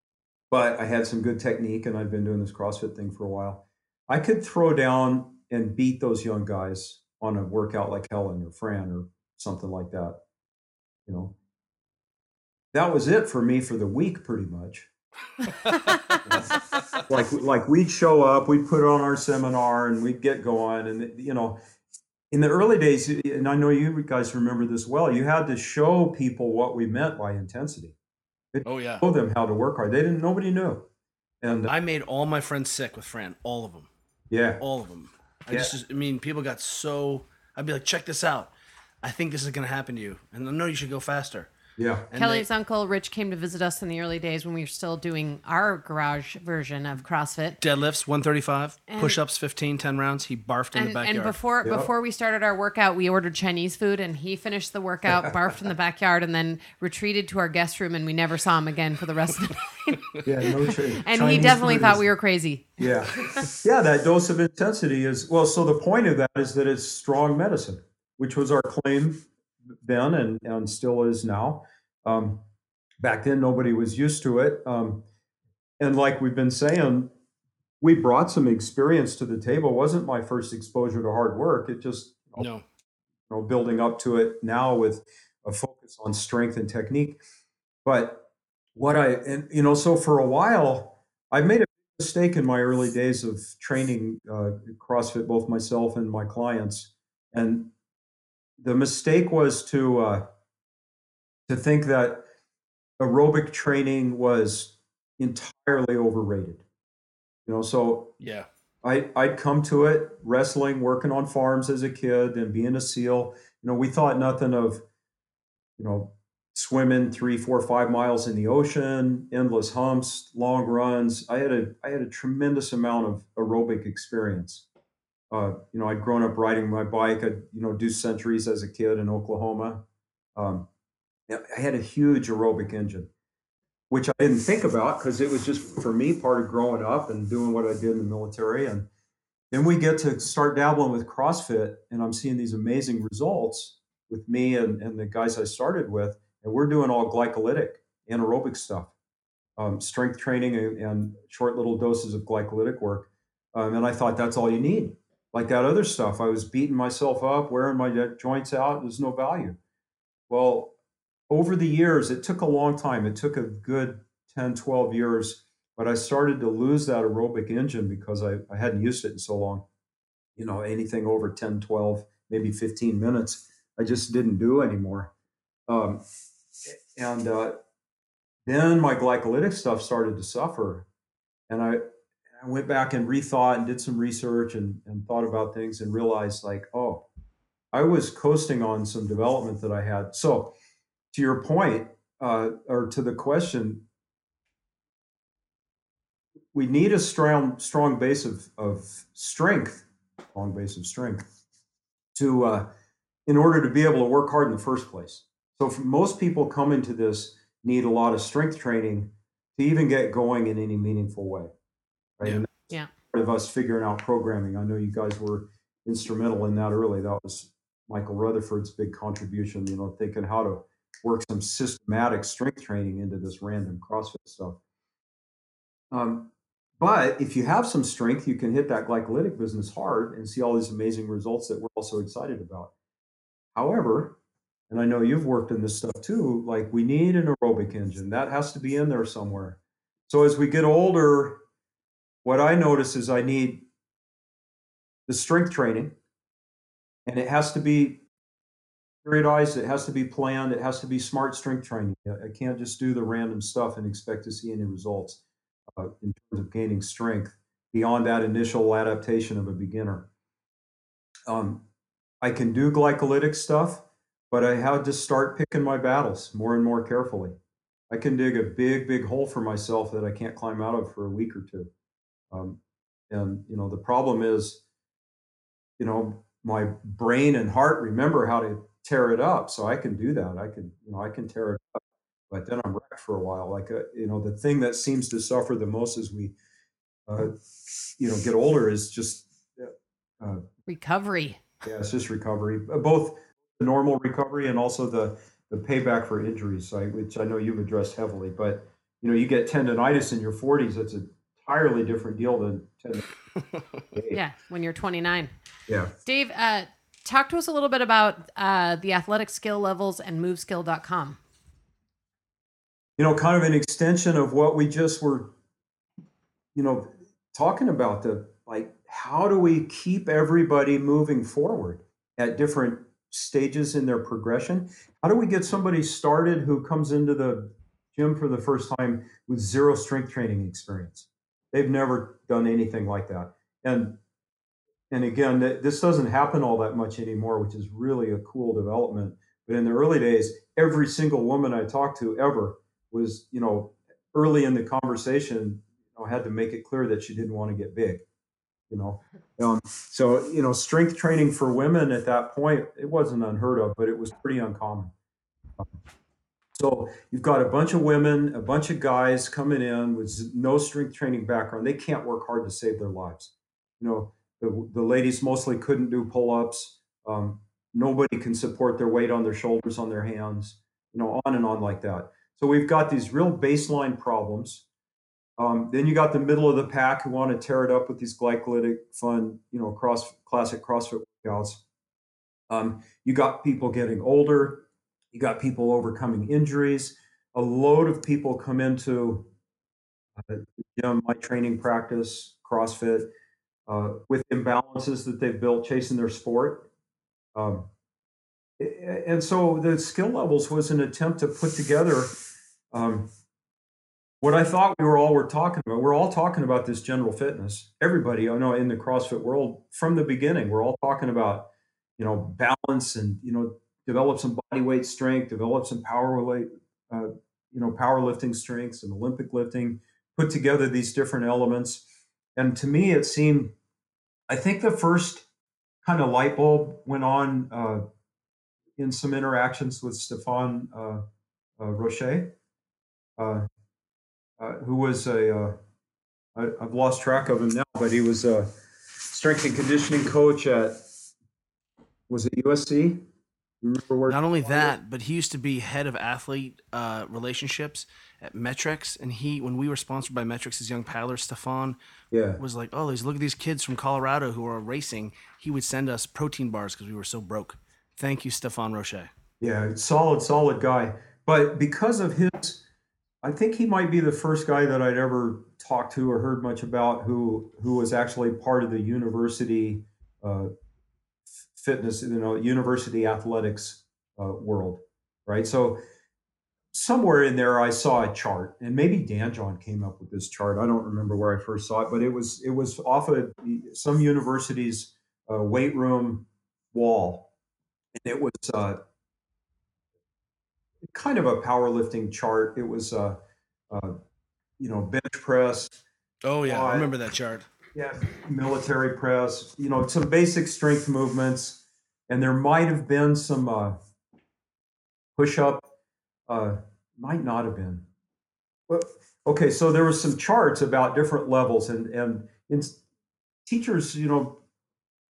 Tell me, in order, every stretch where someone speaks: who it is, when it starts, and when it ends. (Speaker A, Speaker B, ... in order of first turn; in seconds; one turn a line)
Speaker A: 0.5-10.2
Speaker A: 11.1-11.3
Speaker A: 12.7-14.9
Speaker B: 15.7-16.2
Speaker A: 16.3-21.6
Speaker A: 22.3-27.9
Speaker A: 28.5-30.9
Speaker B: 28.6-29.1
Speaker A: 31.4-31.7
Speaker B: 31.7-33.9
Speaker A: 34.3-34.6
Speaker B: 34.6-41.5
Speaker A: 35.5-35.8
Speaker A: 41.8-42.1
Speaker B: 42.1-42.5
Speaker C: 42.1-47.6
Speaker B: 47.6-51.4
Speaker C: 48.9-49.2
Speaker C: 50.7-63.5
Speaker A: 51.6-51.9
Speaker A: 55.1-55.4
Speaker A: 60.2-62.1
Speaker A: 62.8-69.3
Speaker A: 69.8-72.4
Speaker A: 73.0-75.0
Speaker A: 75.8-77.1
Speaker A: 77.8-82.5
Speaker B: 82.4-82.6
Speaker A: 83.3-87.2
Speaker A: 87.8-97.7
Speaker A: 98.6-100.3
Speaker A: 101.5-102.3
Speaker A: 103.0-106.6
Speaker A: 107.5-108.1
Speaker B: 108.2-108.5
Speaker A: 108.8-114.8
Speaker A: 115.8-124.7
Speaker A: 125.3-129.8
Speaker A: 130.4-130.7
Speaker A: 131.3-133.1
Speaker A: 133.9-138.9
Speaker A: 139.5-148.9
Speaker A: 149.6-159.6
Speaker A: 160.3-160.7
Speaker A: 161.3-169.7
Speaker A: 170.4-175.1
Speaker A: 175.7-176.0
Speaker A: 176.7-177.6
Speaker A: 178.5-180.9
Speaker A: 181.5-181.8
Speaker A: 182.4-187.1
Speaker A: 187.7-190.6
Speaker A: 191.1-193.8
Speaker A: 196.5-201.3
Speaker A: 202.2-202.7
Speaker A: 203.3-211.5
Speaker A: 212.2-224.6
Speaker A: 225.9-232.7
Speaker A: 233.6-234.2
Speaker A: 234.7-241.4
Speaker A: 242.2-243.7
Speaker A: 245.1-246.0
Speaker A: 247.1-248.0
Speaker A: 249.0-255.2
Speaker A: 255.7-260.1
Speaker A: 261.3-261.6
Speaker A: 262.2-267.4
Speaker A: 267.9-271.7
Speaker A: 272.3-274.6
Speaker A: 275.8-286.3
Speaker A: 287.1-287.4
Speaker A: 288.0-290.4
Speaker C: 290.7-291.4
Speaker A: 291.6-303.1
Speaker A: 303.9-304.2
Speaker C: 304.1-305.3
Speaker A: 305.7-305.9
Speaker C: 306.1-311.2
Speaker A: 313.0-315.4
Speaker A: 316.6-334.0
Speaker A: 334.9-348.0
Speaker A: 348.7-354.9
Speaker A: 356.6-374.6
Speaker A: 375.4-381.6
Speaker A: 382.5-389.3
Speaker A: 390.2-393.1
Speaker A: 393.7-396.7
Speaker A: 397.4-397.7
Speaker A: 398.6-402.2
Speaker A: 402.7-403.1
Speaker A: 404.2-421.9
Speaker A: 422.4-423.5
Speaker A: 424.3-425.3
Speaker A: 425.8-427.8
Speaker A: 428.8-431.0
Speaker A: 431.6-432.3
Speaker A: 433.2-433.5
Speaker A: 434.4-435.6
Speaker A: 436.4-440.8
Speaker A: 442.1-443.0
Speaker A: 443.6-444.8
Speaker B: 444.1-451.8
Speaker A: 452.1-452.4
Speaker B: 452.4-459.1
Speaker A: 459.4-462.6
Speaker A: 463.2-470.5
Speaker A: 471.5-475.8
Speaker A: 476.7-487.3
Speaker A: 488.0-488.8
Speaker A: 490.8-493.2
Speaker A: 493.7-494.0
Speaker A: 494.6-495.8
Speaker B: 496.2-497.5
Speaker A: 496.4-496.9
Speaker A: 497.7-503.8
Speaker A: 505.2-505.7
Speaker A: 506.3-507.9
Speaker A: 508.7-512.8
Speaker A: 513.5-514.4